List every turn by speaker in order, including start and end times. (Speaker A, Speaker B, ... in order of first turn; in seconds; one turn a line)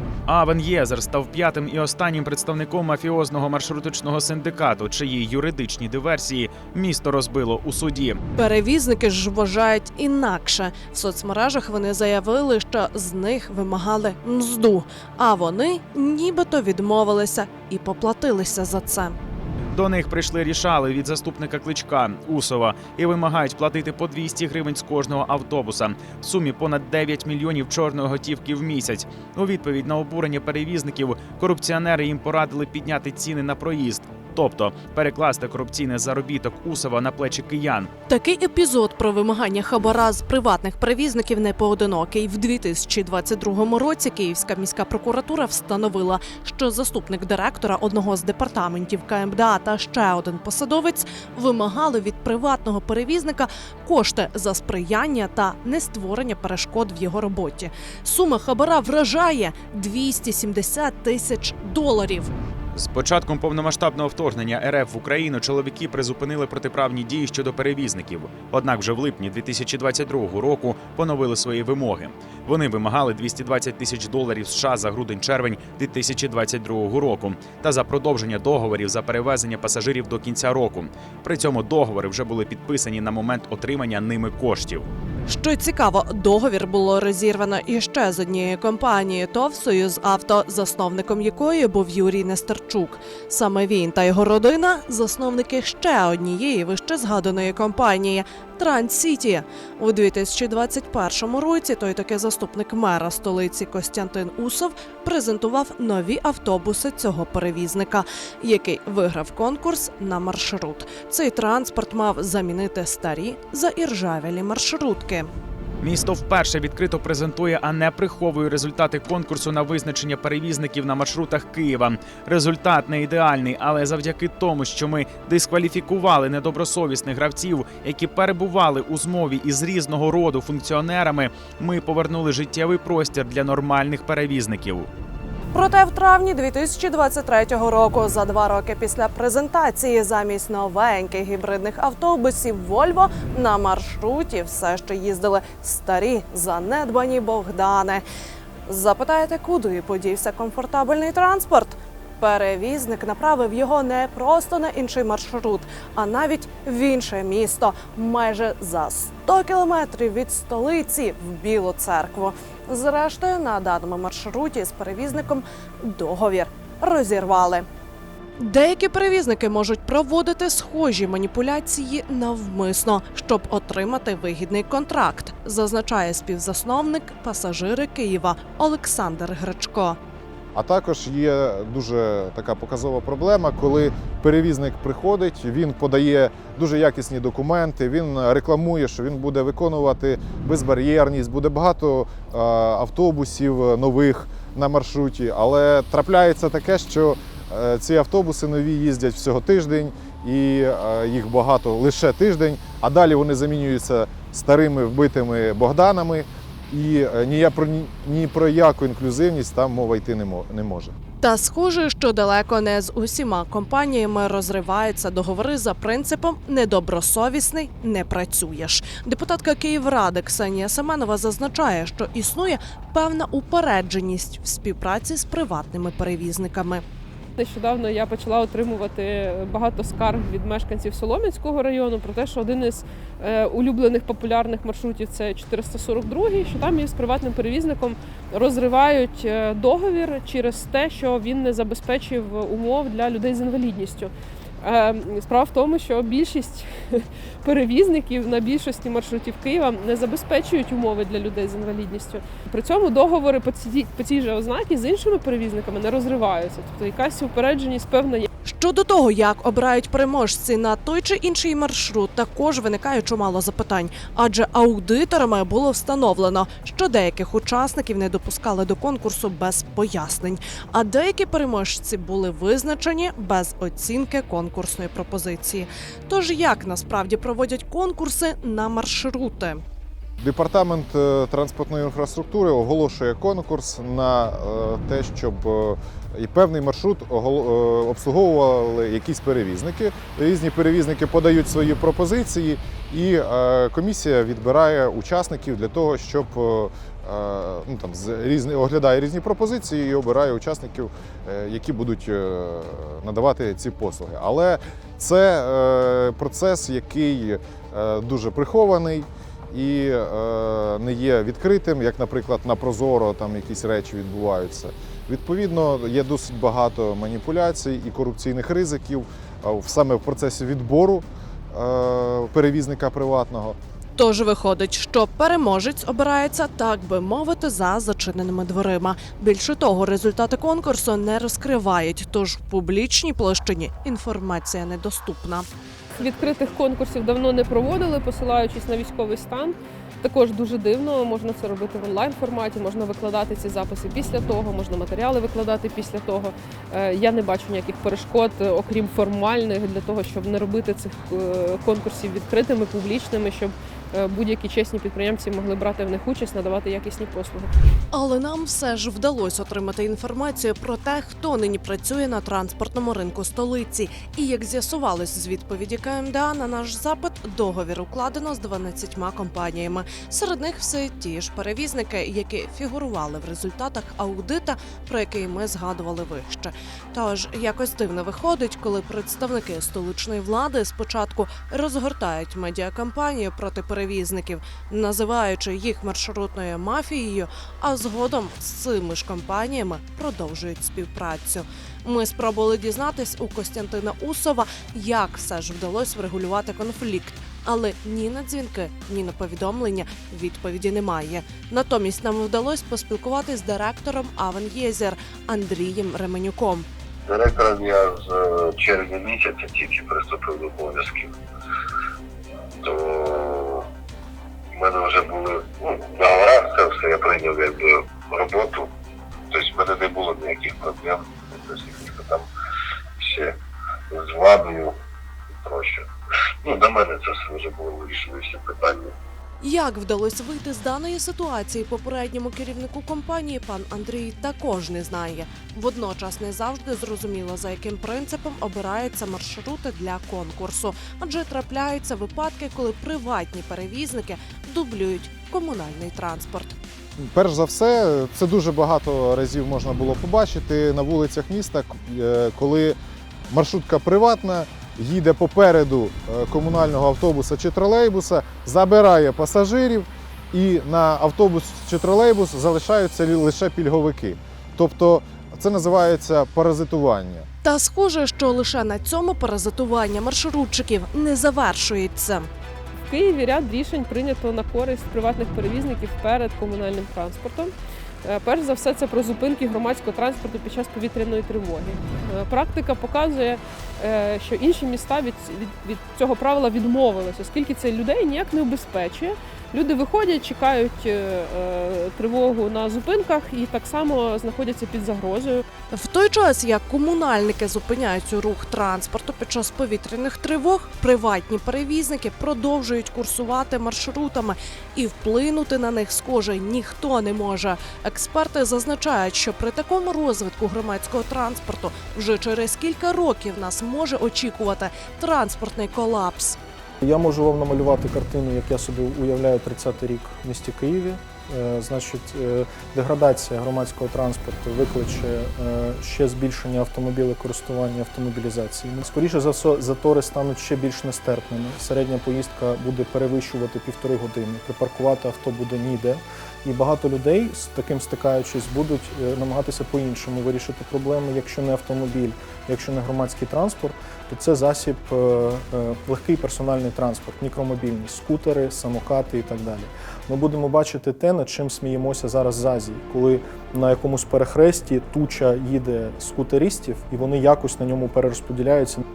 Speaker A: 0.3-8.2
Speaker B: 8.3-19.1
Speaker A: 19.7-37.9
Speaker B: 38.1-62.3
Speaker A: 62.7-84.9
Speaker B: 85.2-115.3
Speaker A: 115.8-134.9
Speaker B: 135.5-148.0
Speaker B: 148.7-167.7
Speaker B: 168.4-180.0
Speaker C: 180.5-210.9
Speaker B: 211.2-226.8
Speaker D: 227.4-244.1
Speaker D: 244.6-258.3
Speaker B: 258.4-279.6
Speaker C: 280.2-323.6
Speaker B: 323.9-335.5
Speaker D: 335.9-357.5
Speaker B: 357.9-406.7
Speaker E: 407.1-411.1
Speaker E: 412.6-413.6
Speaker E: 414.5-418.7
Speaker E: 419.3-422.3
Speaker E: 423.0-423.4
Speaker E: 423.9-424.8
Speaker E: 425.3-425.9
Speaker E: 426.4-428.9
Speaker B: 429.4-446.6
Speaker C: 447.1-452.8
Speaker C: 453.3-467.3
Speaker B: 467.4-472.3
Speaker D: 472.9-477.5
Speaker D: 478.0-495.4
Speaker B: 495.7-516.4
Speaker F: 516.8-558.8